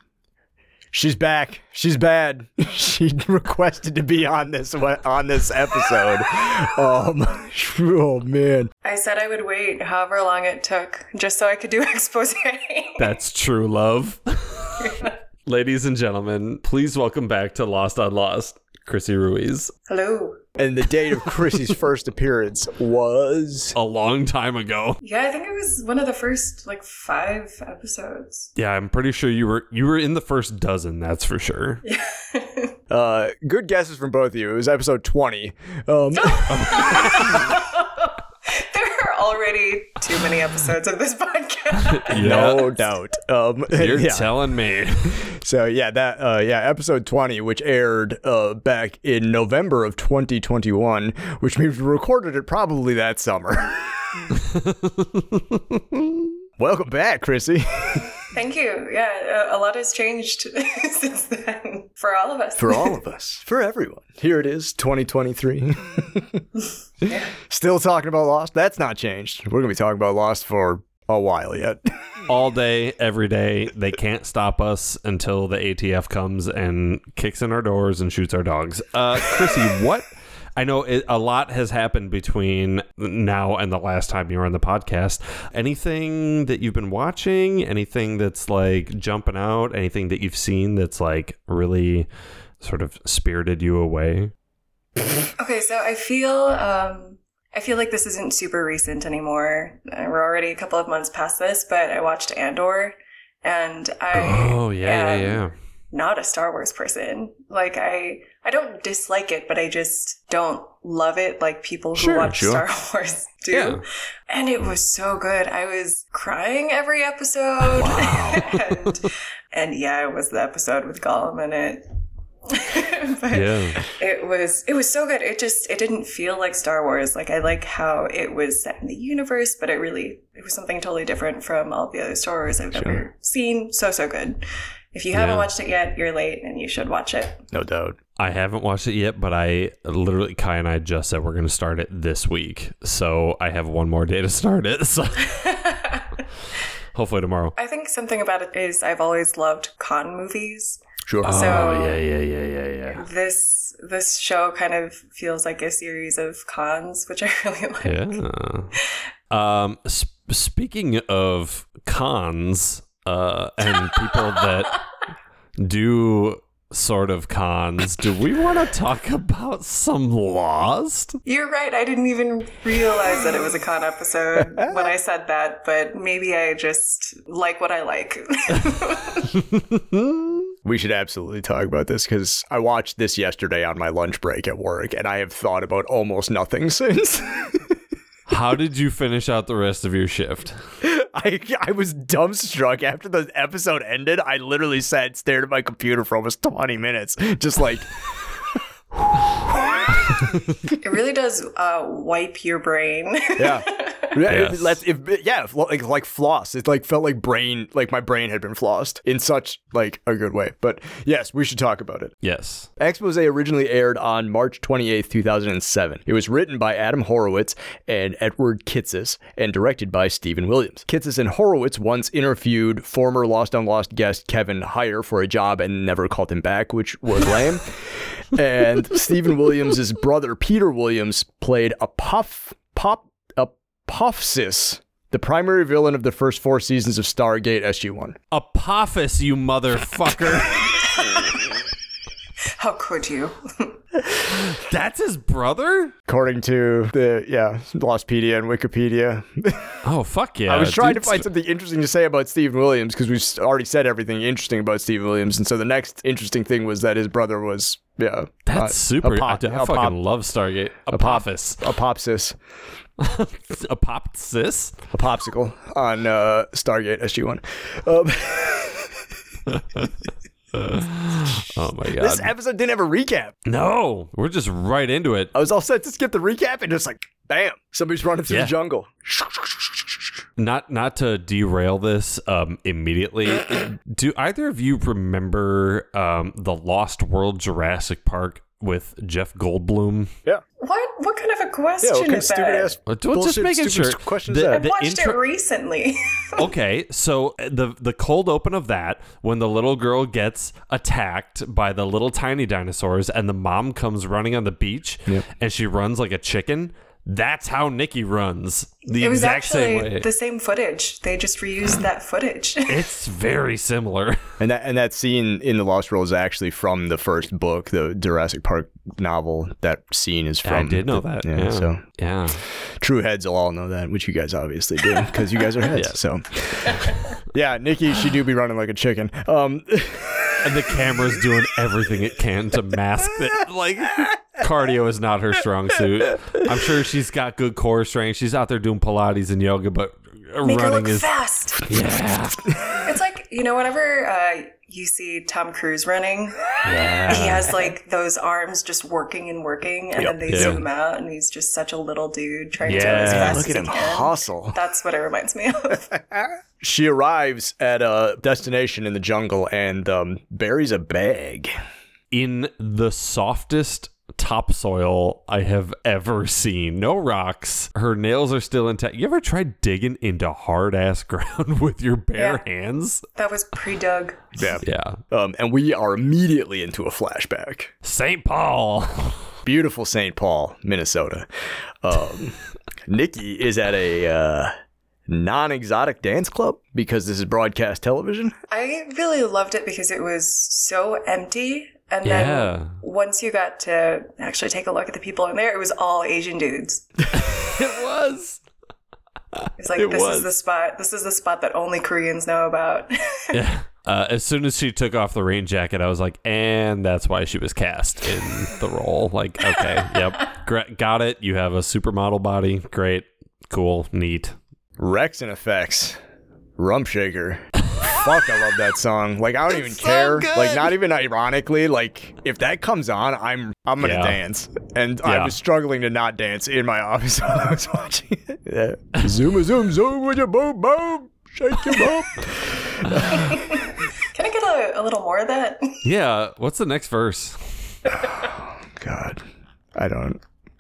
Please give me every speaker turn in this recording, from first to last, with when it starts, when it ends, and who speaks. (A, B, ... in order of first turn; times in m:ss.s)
0:00.9-0:08.7 A
0:08.8-0:13.1 B
0:13.0-0:19.7 C
0:19.9-0:20.4 B
0:20.6-0:23.8 A
0:23.8-0:25.0 C
0:25.0-0:28.5 B
0:28.6-0:31.8 C
0:31.8-0:32.8 B
0:32.9-0:37.2 A
0:36.2-0:42.8 B
0:36.5-0:37.5 C
0:42.0-0:42.7 C
0:42.1-0:44.3 A
0:43.7-0:45.2 C
0:45.2-0:54.3 A
0:54.7-0:55.2 C
0:56.6-0:58.1 A
0:58.3-1:03.0 B
1:02.6-1:06.4 A
1:07.0-1:07.3 B
1:07.0-1:11.8 A
1:12.3-1:32.1 C
1:32.6-1:34.3 C
1:35.4-2:01.8 B
1:44.1-1:45.5 C
1:52.0-1:52.6 A
1:53.5-1:53.8 C
1:57.6-1:58.8 C
2:02.5-2:17.4 B
2:03.3-2:03.8 C
2:12.7-2:13.0 A
2:15.1-2:15.5 C
2:17.5-2:18.0 A
2:18.2-2:25.4 C
2:25.3-2:26.1 B
2:27.0-2:27.5 C
2:27.6-2:32.0 B
2:31.1-2:31.7 A
2:31.2-2:33.0 C
2:32.9-2:38.2 B
2:37.8-2:38.7 C
2:39.3-2:44.8 C
2:43.9-2:44.8 B
2:45.6-2:51.2 C
2:51.2-2:59.4 B
2:54.4-2:54.9 A
2:59.7-3:00.2 C
3:00.6-3:07.8 A
3:08.3-3:10.6 C
3:10.8-3:17.9 A
3:19.0-3:20.0 A
3:20.7-3:24.2 B
3:23.4-3:32.2 A
3:24.3-3:24.8 C
3:32.2-3:32.7 C
3:32.8-3:58.2 A
3:58.3-4:00.8 C
4:01.0-4:01.4 B
4:02.6-4:03.8 B
4:04.2-4:06.0 C
4:06.1-4:09.8 A
4:09.8-4:11.3 C
4:10.5-4:20.0 A
4:18.5-4:21.7 C
4:20.9-4:22.4 A
4:23.0-4:24.8 C
4:24.9-4:29.0 A
4:29.5-4:29.9 C
4:30.5-4:32.3 C
4:32.0-4:33.4 A
4:33.5-4:35.3 C
4:35.3-4:40.0 A
4:40.4-4:50.1 C
4:50.6-4:52.8 B
4:51.8-4:54.7 A
4:52.9-4:55.2 C
4:54.5-4:56.5 B
4:56.4-5:10.1 C
5:08.9-5:12.9 B
5:12.7-5:14.3 C
5:14.4-5:21.8 A
5:20.4-5:22.4 C
5:22.8-5:30.5 A
5:25.7-5:26.0 C
5:30.4-5:41.1 C
5:40.4-5:41.8 B
5:41.7-5:42.5 C
5:42.7-5:46.6 B
5:46.6-5:47.7 C
5:47.1-5:55.9 B
5:50.0-5:50.6 A
5:50.3-5:50.6 C
5:52.6-5:53.5 C
5:52.8-5:54.6 A
5:55.9-6:01.5 A
6:02.1-6:13.0 C
6:12.2-6:12.4 B
6:13.2-6:14.2 B
6:14.4-6:17.7 A
6:14.6-6:15.0 C
6:17.8-6:19.3 C
6:19.4-6:21.3 A
6:21.8-6:24.5 A
6:25.1-6:28.4 A
6:28.5-6:36.9 B
6:32.0-6:32.8 C
6:37.1-6:38.4 C
6:39.3-6:40.3 C
6:39.6-6:43.4 B
6:43.3-6:54.4 C
6:54.8-6:56.0 A
6:56.6-7:13.6 A
6:59.5-7:00.8 C
7:03.8-7:04.2 C
7:05.0-7:05.4 C
7:13.1-7:15.8 B
7:15.8-7:17.4 C
7:17.9-7:19.2 A
7:19.8-7:20.2 A